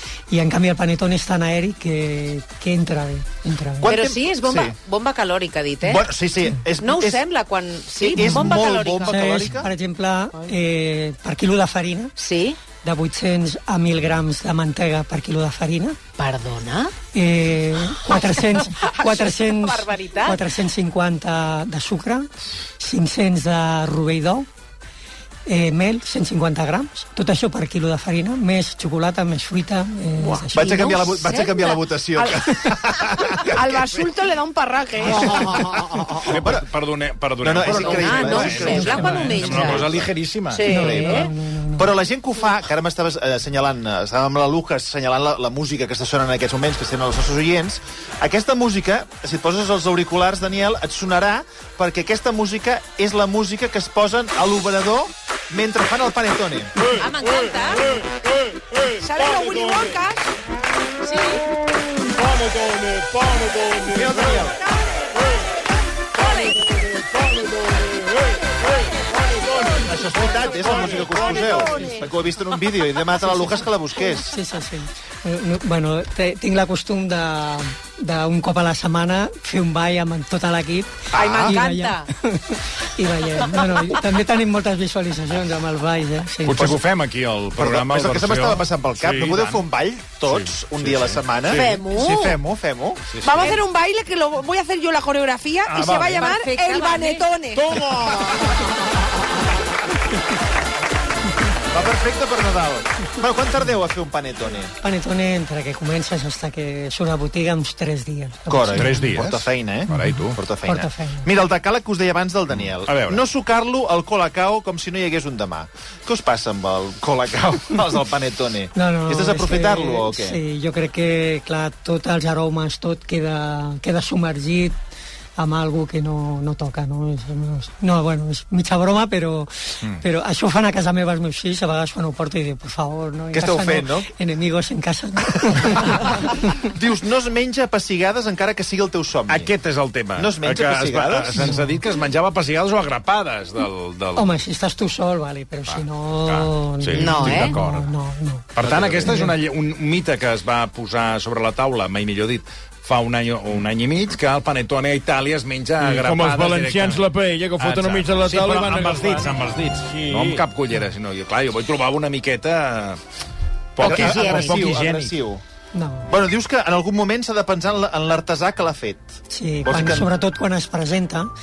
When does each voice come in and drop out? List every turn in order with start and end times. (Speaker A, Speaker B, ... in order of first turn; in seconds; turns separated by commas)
Speaker A: 0.3-4.0, Speaker B: 3.8-4.8, Speaker C: 3.9-6.1, Speaker B: 5.8-7.2, Speaker C: 6.8-9.5, Speaker B: 8.0-9.7, Speaker A: 8.1-12.1, Speaker C: 12.2-12.6, Speaker A: 12.8-16.0, Speaker C: 16.2-16.9, Speaker A: 17.1-24.5, Speaker C: 17.9-20.4, Speaker A: 25.5-30.9, Speaker D: 30.2-32.4, Speaker B: 30.5-34.1, Speaker D: 33.2-36.3, Speaker B: 35.0-36.7, Speaker E: 36.2-40.7, Speaker B: 37.4-39.9, Speaker C: 37.6-41.3, Speaker A: 38.6-39.8, Speaker A: 40.6-42.0, Speaker B: 40.8-56.8, Speaker F: 56.8-60.0, Speaker C: 56.8-58.0, Speaker D: 58.8-60.3, Speaker C: 61.0-61.5, Speaker F: 62.1-64.5, Speaker B: 63.9-64.6, Speaker D: 64.4-65.6, Speaker C: 66.2-66.7, Speaker F: 66.2-70.1, Speaker D: 68.9-72.1, Speaker B: 69.8-74.3, Speaker F: 70.6-71.9, Speaker A: 73.3-86.8, Speaker B: 81.1-81.6, Speaker C: 81.1-82.1, Speaker E: 86.4-89.6, Speaker B: 87.6-93.0, Speaker E: 90.2-91.8, Speaker C: 91.5-92.4, Speaker E: 93.1-93.6, Speaker D: 93.2-98.5, Speaker E: 95.7-96.3, Speaker C: 96.2-97.3, Speaker E: 97.5-98.2, Speaker B: 97.7-98.5, Speaker B: 101.7-104.7, Speaker A: 104.8-109.2, Speaker B: 108.5-120.4, Speaker E: 108.7-110.4, Speaker A: 110.0-111.3, Speaker E: 112.8-113.2, Speaker A: 118.7-124.8, Speaker A: 125.4-136.6, Speaker B: 133.3-134.1, Speaker B: 136.6-139.5, Speaker E: 139.3-144.4, Speaker B: 140.2-141.5, Speaker A: 141.4-141.8, Speaker A: 144.2-149.3, Speaker E: 145.7-147.9, Speaker C: 146.9-147.5, Speaker E: 148.6-163.0, Speaker F: 148.6-149.2, Speaker F: 155.8-159.3, Speaker F: 159.9-160.4, Speaker E: 163.8-165.1, Speaker C: 163.8-164.6, Speaker B: 163.8-165.4, Speaker A: 165.7-166.1, Speaker B: 166.1-169.1, Speaker A: 169.3-171.3, Speaker B: 169.7-170.1